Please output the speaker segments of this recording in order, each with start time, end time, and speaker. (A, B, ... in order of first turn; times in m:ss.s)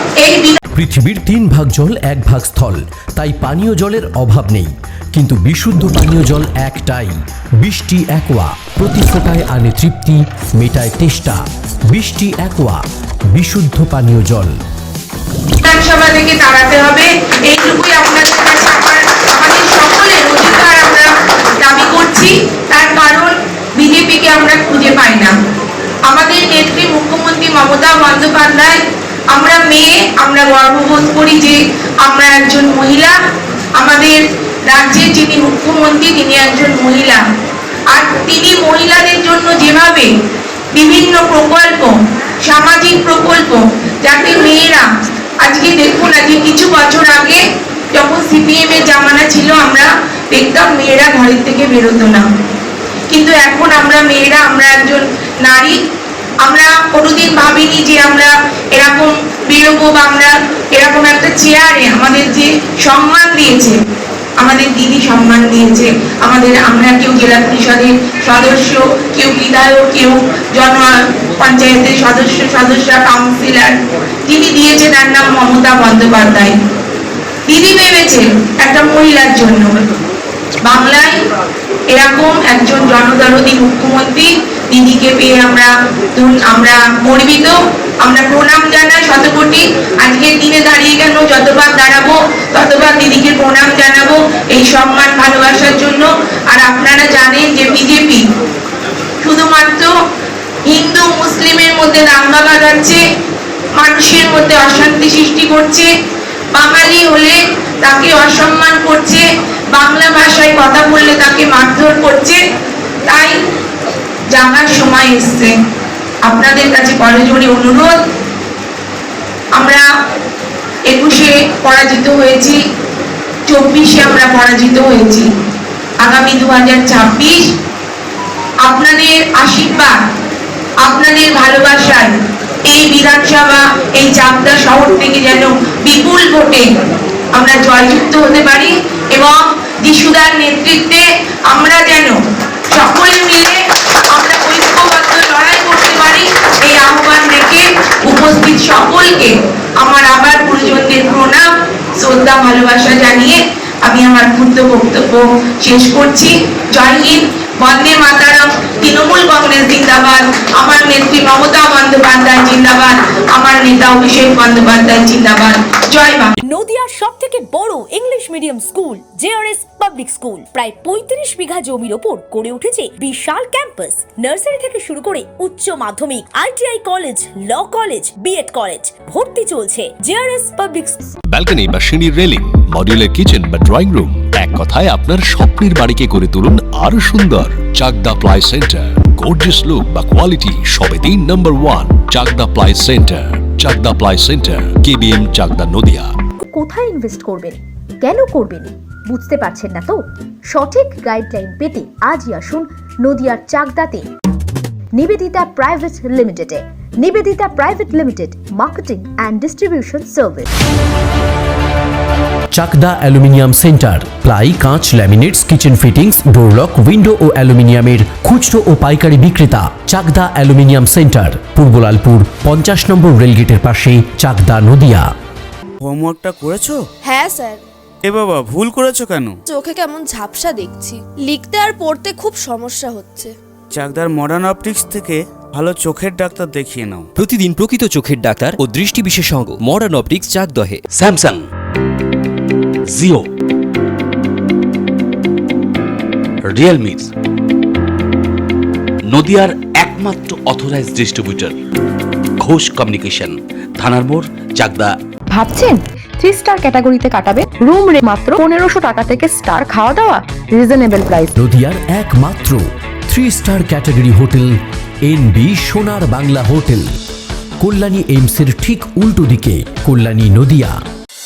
0:00.2-0:00.6 A
0:00.7-0:14.6 B
0:15.6-0:25.3 A
0:26.0-0:28.8 A
0:29.3-0:33.1 A
0:33.8-0:37.2 A
0:37.9-0:40.1 A
0:40.7-0:44.8 A
0:45.4-0:47.4 A
0:47.9-0:52.3 A
0:53.1-0:55.8 A
0:56.4-1:03.8 A
1:04.4-1:16.5 A
1:17.5-1:19.8 A
1:20.6-1:21.2 A
1:21.9-1:38.2 A
1:39.2-1:39.9 A
1:40.6-1:43.0 A
1:43.8-1:45.9 A
1:46.5-1:52.4 A
1:53.0-1:53.4 A
1:54.3-1:55.5 A
1:56.2-1:58.0 A
1:59.5-1:59.8 A
2:00.9-2:02.6 A
2:03.5-2:05.3 A
2:06.0-2:07.5 A
2:08.6-2:10.0 A
2:10.8-2:12.1 A
2:12.7-2:16.6 A
2:17.3-2:22.2 A
2:22.7-2:23.6 A
2:24.1-2:46.3 A
2:46.4-3:01.1 C
3:01.3-3:16.0 D
3:16.4-3:24.0 E
3:25.0-3:30.5 E
3:32.5-3:45.0 B
3:45.8-3:46.8 F
3:47.0-3:47.6 G
3:48.0-3:49.4 F
3:49.5-3:53.3 G
3:53.7-3:57.1 F
3:57.2-4:00.8 H
4:00.9-4:01.4 I
4:02.9-4:03.2 I
4:06.5-4:07.1 I
4:09.1-4:11.6 I
4:12.4-4:14.9 I
4:15.3-4:21.3 J
4:21.3-4:26.9 B
4:27.6-4:30.8 B